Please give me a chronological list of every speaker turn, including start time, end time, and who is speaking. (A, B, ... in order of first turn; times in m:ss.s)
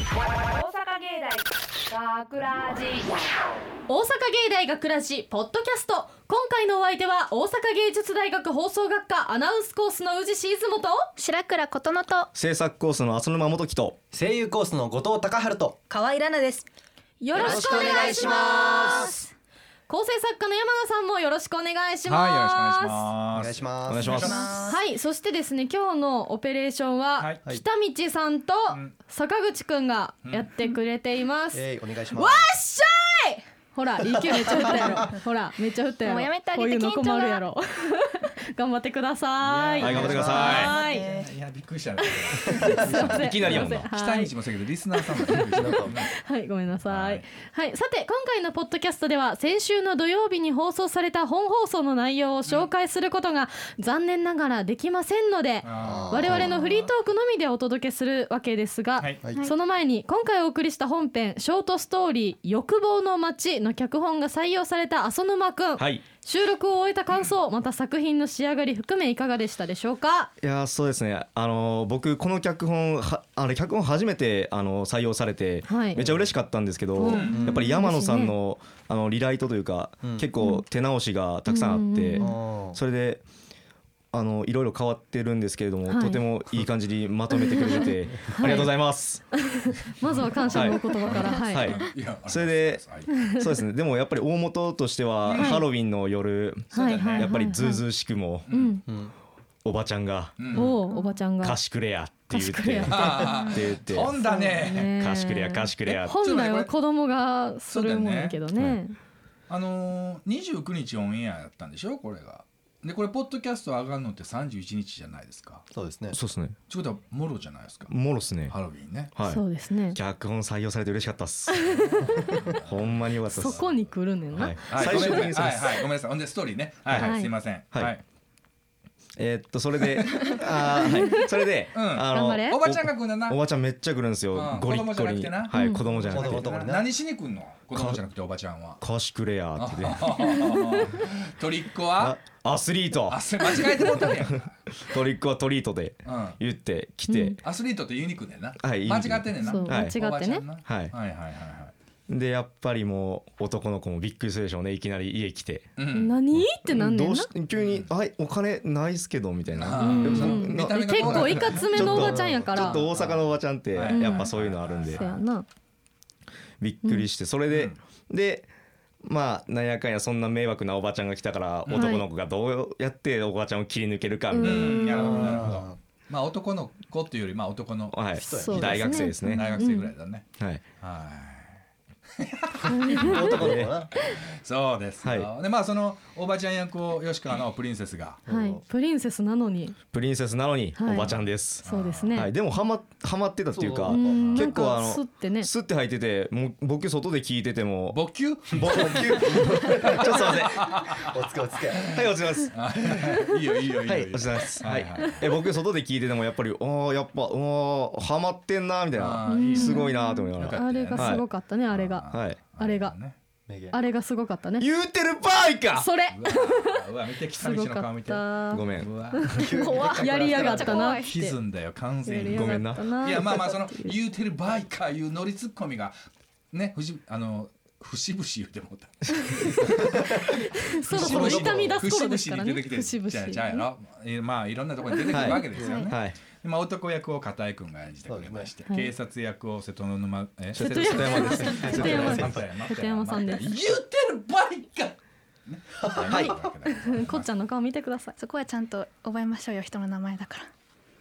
0:00.3-0:03.1 A
0:03.9-0:11.1 B
0:11.2-0:12.3 C
0:12.4-0:14.0 D
0:14.1-0:15.8 E
0:15.9-0:16.6 F
0:17.2-0:19.2 B
0:17.3-0:19.2 F
0:17.4-0:18.4 E
0:19.9-0:23.0 B
0:22.1-0:24.5 G
0:23.3-0:24.2 E
0:23.9-0:24.4 D
0:24.1-0:24.8 F
0:24.6-0:41.1 B
0:31.5-0:32.5 E
0:34.2-0:35.1 E
0:36.0-0:37.5 C
0:39.4-0:46.1 G
0:39.8-0:40.7 D
0:39.9-0:40.5 E
0:40.5-0:41.3 F
0:42.0-0:44.3 B
0:42.9-0:43.9 D
0:44.9-1:10.3 B
0:45.4-0:46.0 E
0:46.9-0:47.2 G
0:55.6-0:56.7 G
0:55.8-0:56.6 E
1:05.8-1:06.0 D
1:10.4-1:23.2 D
1:15.7-1:16.0 B
1:17.0-1:18.4 B
1:17.0-1:17.6 G
1:17.3-1:17.7 E
1:20.0-1:20.3 E
1:20.4-1:20.6 B
1:21.5-1:22.4 B
1:22.2-1:22.8 E
1:24.1-1:29.4 D
1:25.9-1:26.2 B
1:27.4-1:28.8 B
1:29.3-1:31.8 B
1:30.0-1:33.3 G
1:30.5-1:38.5 D
1:33.1-1:33.5 B
1:35.3-1:35.6 G
1:35.3-1:35.6 B
1:36.7-1:37.3 G
1:36.7-1:37.8 B
1:38.5-1:38.8 G
1:38.5-1:38.8 B
1:38.9-1:39.1 E
1:39.6-1:40.8 D
1:40.4-1:40.8 G
1:40.5-1:41.6 B
1:41.4-1:46.2 D
1:42.3-1:43.4 B
1:42.9-1:44.9 G
1:44.1-1:49.0 B
1:46.1-1:46.7 G
1:47.7-1:48.4 G
1:49.5-1:55.6 G
1:55.7-1:56.2 E
1:56.1-1:56.6 D
1:56.7-1:59.1 G
1:57.9-1:58.6 D
1:59.1-2:05.8 D
1:59.3-2:00.0 B
2:01.5-2:02.0 B
2:01.7-2:03.7 G
2:03.3-2:05.3 B
2:04.7-2:08.0 G
2:06.9-2:07.2 D
2:07.0-2:07.3 B
2:09.2-2:16.6 D
2:11.7-2:13.4 G
2:12.1-2:12.6 B
2:14.3-2:18.8 G
2:15.5-2:15.8 B
2:16.1-2:16.9 E
2:17.7-2:18.0 D
2:18.8-2:21.0 D
2:19.6-2:22.2 G
2:22.0-2:27.4 D
2:23.1-2:24.5 G
2:26.0-2:26.4 G
2:27.1-2:27.4 B
2:27.4-2:31.7 G
2:28.6-2:30.0 D
2:29.4-2:30.4 B
2:30.6-2:30.9 D
2:32.1-2:35.8 D
2:35.8-2:36.2 G
2:35.9-2:37.3 B
2:36.3-2:45.0 D
2:37.5-2:37.9 G
2:39.6-2:45.2 G
2:39.8-2:42.8 B
2:40.1-2:40.4 E
2:42.0-2:42.5 E
2:43.9-2:44.3 B
2:44.9-2:45.5 B
2:46.6-2:48.5 D
2:47.5-2:47.8 G
2:49.0-2:55.5 D
2:51.7-2:52.0 G
2:51.7-2:52.0 B
2:54.3-2:55.3 B
2:54.4-2:58.0 G
2:55.0-2:55.8 E
2:57.9-2:59.6 D
2:58.2-2:59.1 E
2:58.2-2:59.9 B
2:58.6-3:00.3 G
3:00.8-3:01.6 G
3:02.2-3:08.2 G
3:02.7-3:04.1 B
3:02.9-3:03.9 E
3:03.2-3:03.9 D
3:05.0-3:05.3 D
3:08.3-3:08.6 E
3:08.3-3:09.8 B
3:09.9-3:20.8 D
3:10.8-3:11.1 B
3:11.0-3:12.2 G
3:11.6-3:12.3 B
3:13.5-3:14.4 E
3:13.9-3:15.5 B
3:14.2-3:14.5 G
3:17.9-3:21.2 G
3:19.1-3:20.1 E
3:21.1-3:22.0 E
3:21.7-3:25.3 G
3:21.9-3:23.2 D
3:23.8-3:31.2 D
3:28.9-3:33.2 G
3:29.3-3:33.0 B
3:32.1-3:32.4 D
3:33.5-3:33.8 E
3:33.7-3:34.7 B
3:34.6-3:35.9 D
3:35.7-3:36.8 B
3:36.1-3:46.0 G
3:37.4-3:41.4 B
3:38.5-3:38.9 D
3:39.4-3:40.8 E
3:39.6-3:41.1 C
3:42.0-3:44.0 B
3:42.3-3:43.1 D
3:46.5-4:07.3 G
3:49.2-3:53.7 B
3:49.9-3:50.2 E
3:50.9-3:51.8 E
3:51.0-3:51.5 D
3:54.9-3:55.8 B
3:55.1-3:56.2 D
3:58.1-3:58.5 E
4:00.5-4:02.4 D
4:00.6-4:03.6 B
4:01.4-4:02.4 E
4:05.8-4:06.2 E
4:06.1-4:06.4 D
4:06.1-4:08.2 B
4:08.2-4:10.5 C